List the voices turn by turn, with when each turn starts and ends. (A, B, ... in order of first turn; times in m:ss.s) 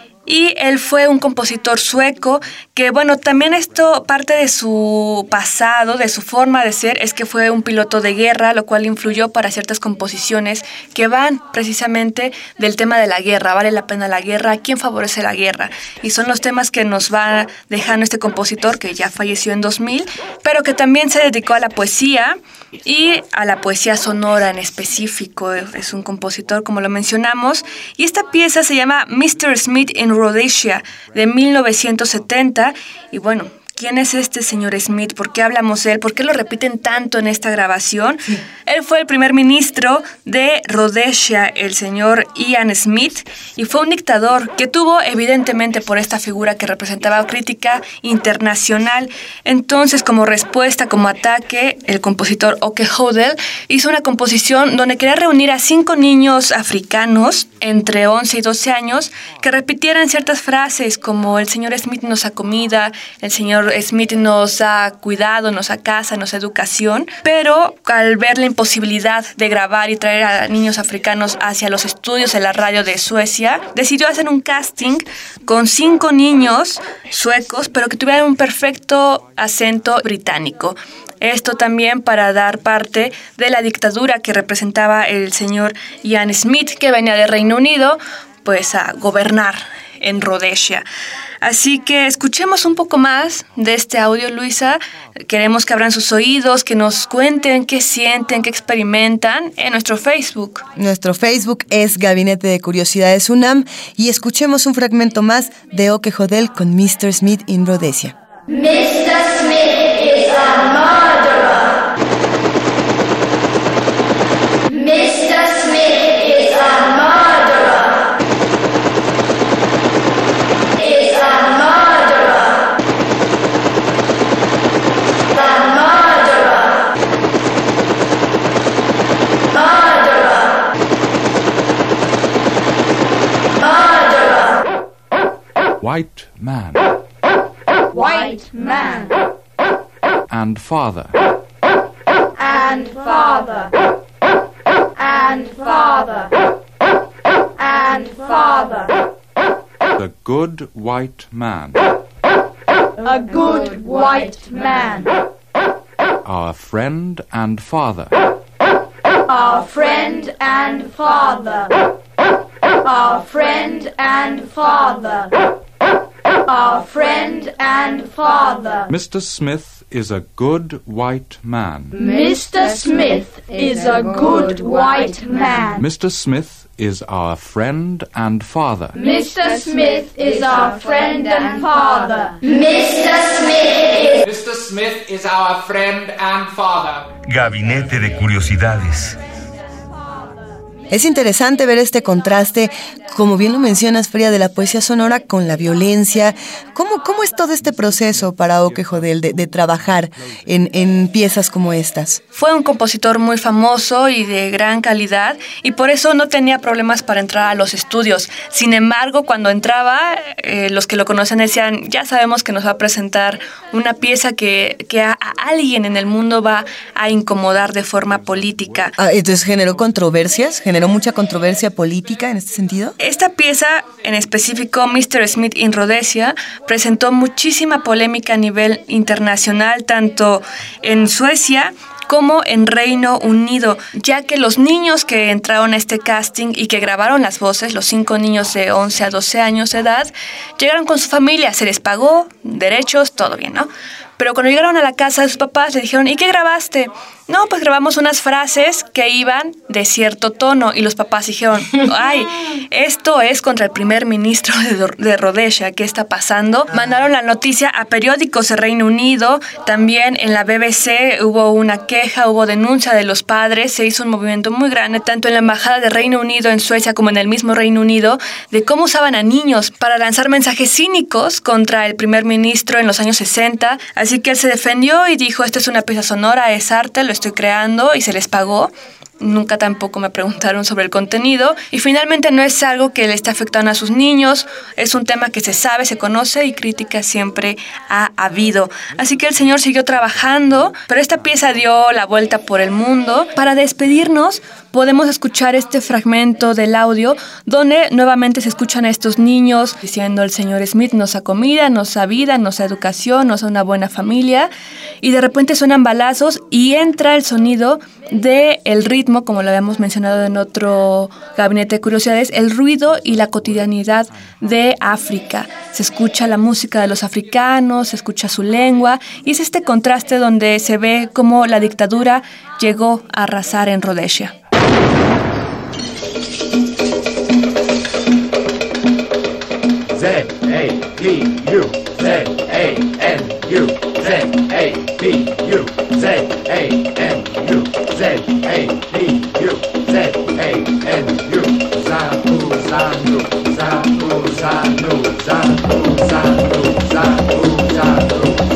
0:00.2-1:30.8 A
1:31.4-1:40.6 A
1:40.8-1:48.1 B
1:48.5-1:51.7 C
1:54.7-1:58.0 C
2:00.8-2:02.3 C
2:15.8-2:16.9 D
2:17.9-2:19.1 C
2:20.3-2:21.2 D
2:22.4-2:23.7 C
2:25.0-2:26.3 C
2:27.6-2:28.9 C
2:30.0-2:31.8 D
2:33.0-2:35.1 C
2:36.2-2:38.1 D
2:36.9-2:37.7 E
2:39.3-2:41.7 C
2:42.8-2:45.3 C
2:46.5-2:48.9 C
2:48.9-2:51.8 D
2:50.1-2:52.0 E
2:51.9-2:55.8 C
2:55.8-2:58.8 D
2:57.2-2:58.0 E
2:58.7-2:59.0 E
2:58.9-3:04.2 C
3:04.3-3:07.0 F
3:07.2-3:09.2 G
3:10.9-3:22.2 B
3:22.3-3:38.9 A
3:39.0-3:42.9 B
3:43.0-5:04.5 A
5:05.0-5:24.3 A
5:30.1-5:31.7 E
5:32.5-5:39.6 E
5:40.2-5:40.8 E
5:41.3-5:45.1 E